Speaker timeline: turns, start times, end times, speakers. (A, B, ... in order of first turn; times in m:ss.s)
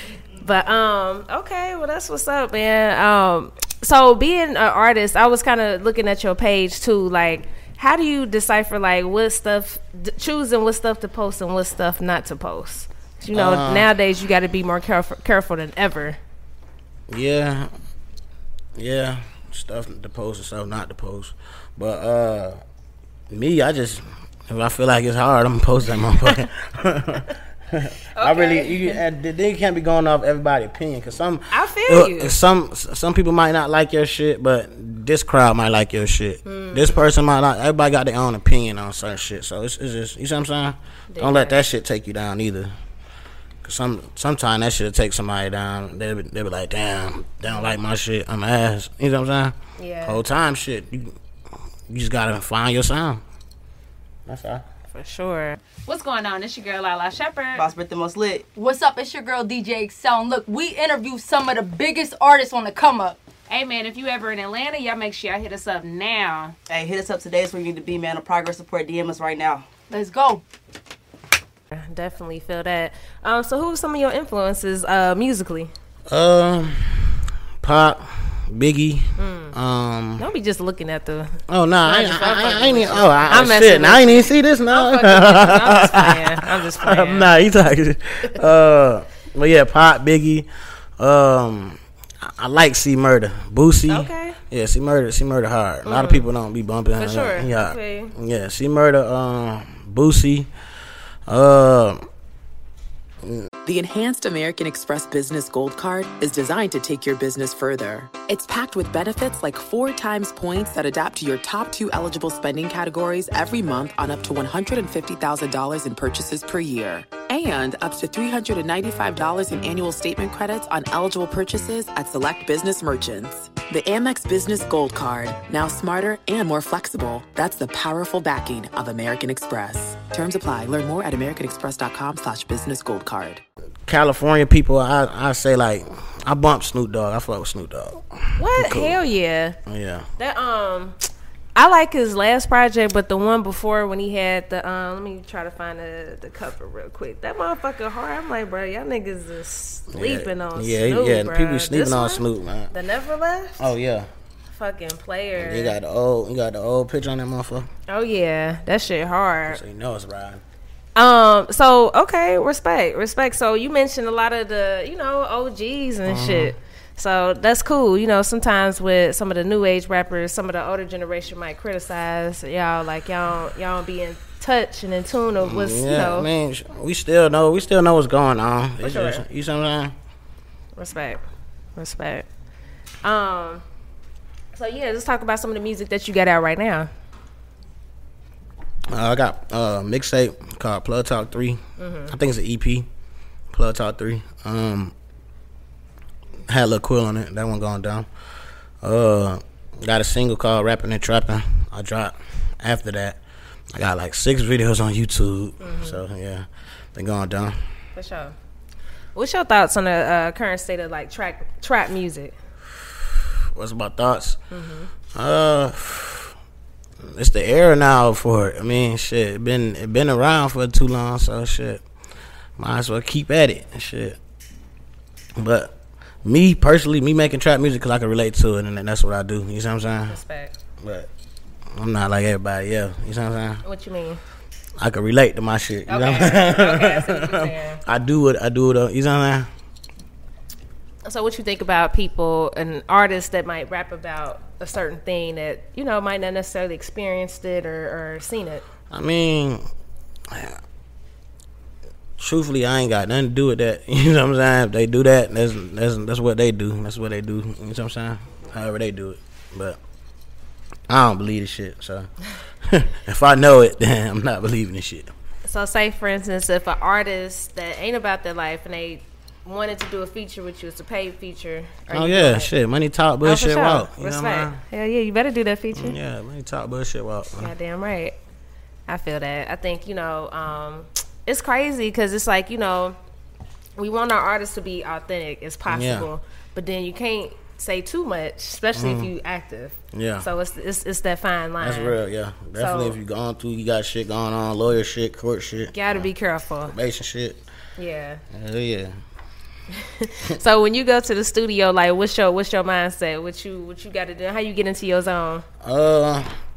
0:00.4-0:16.2 A
0:13.3-0:13.9 B
0:17.1-0:17.7 B
0:18.8-0:22.6 B
0:23.3-0:42.7 B
0:28.2-0:29.0 A
0:31.5-0:32.4 A
0:36.4-0:37.1 A
0:41.1-0:41.6 A
0:43.6-0:51.2 B
0:49.8-0:50.2 A
0:51.9-0:53.2 B
0:54.3-0:54.6 B
0:54.9-0:55.8 A
0:55.9-0:57.6 C
0:57.6-0:58.5 D
0:58.6-1:03.2 E
1:03.5-1:06.5 C
1:06.7-1:09.7 D
1:09.9-1:10.4 E
1:11.7-1:15.7 A
1:16.1-1:20.3 B
1:19.2-1:19.6 A
1:20.2-1:27.3 A
1:21.5-1:30.5 B
1:31.0-1:40.5 B
1:33.9-1:34.4 A
1:35.8-1:36.3 A
1:37.0-1:38.1 A
1:41.3-1:42.0 B
1:43.6-2:13.4 F
2:13.9-2:19.0 B
2:18.4-2:19.6 A
2:19.7-2:20.1 B
2:20.2-2:21.0 A
2:21.6-2:33.7 A
2:29.9-2:32.7 B
2:33.6-2:34.1 B
2:34.5-2:35.8 A
2:35.4-2:37.7 B
2:37.9-2:39.6 A
2:39.5-2:40.4 B
2:41.0-2:56.3 A
2:46.0-2:46.6 B
2:55.4-3:00.0 B
2:58.8-2:59.2 A
3:00.8-3:01.2 A
3:01.8-3:02.3 A
3:03.0-3:03.6 A
3:04.5-3:06.9 A
3:08.9-3:12.9 B
3:11.8-3:12.1 A
3:13.5-3:14.9 B
3:16.5-3:18.1 B
3:18.8-3:23.2 B
3:23.7-3:27.6 B
3:25.6-3:26.0 A
3:28.0-3:28.4 A
3:29.2-3:32.4 A
3:33.3-3:34.4 B
3:34.5-3:34.9 A
3:35.2-3:36.4 B
3:37.0-3:41.8 B
3:42.6-3:44.2 B
3:45.4-3:50.2 B
3:50.1-3:50.5 A
3:50.8-3:51.1 B
3:51.8-3:53.6 B
3:53.6-3:54.2 A
3:54.8-3:59.5 B
3:55.9-3:57.8 A
4:01.0-4:08.6 A
4:08.9-4:09.6 B
4:10.3-4:10.6 B
4:12.2-4:19.8 B
4:20.9-4:22.1 B
4:22.6-4:25.1 B
4:25.5-4:32.5 A
4:31.9-4:34.6 B
4:33.2-4:36.0 A
4:35.7-4:37.5 B
4:37.4-4:38.2 A
4:38.9-4:43.0 A
4:43.8-4:52.0 A
4:45.7-4:46.1 B
4:48.7-4:49.1 B
4:49.9-4:50.3 B
4:51.6-4:56.1 B
4:52.6-4:53.0 A
4:55.7-4:56.8 A
4:56.6-4:57.4 B
4:57.8-4:58.2 A
4:58.3-4:58.9 B
4:59.8-5:05.4 A
5:05.6-5:06.3 B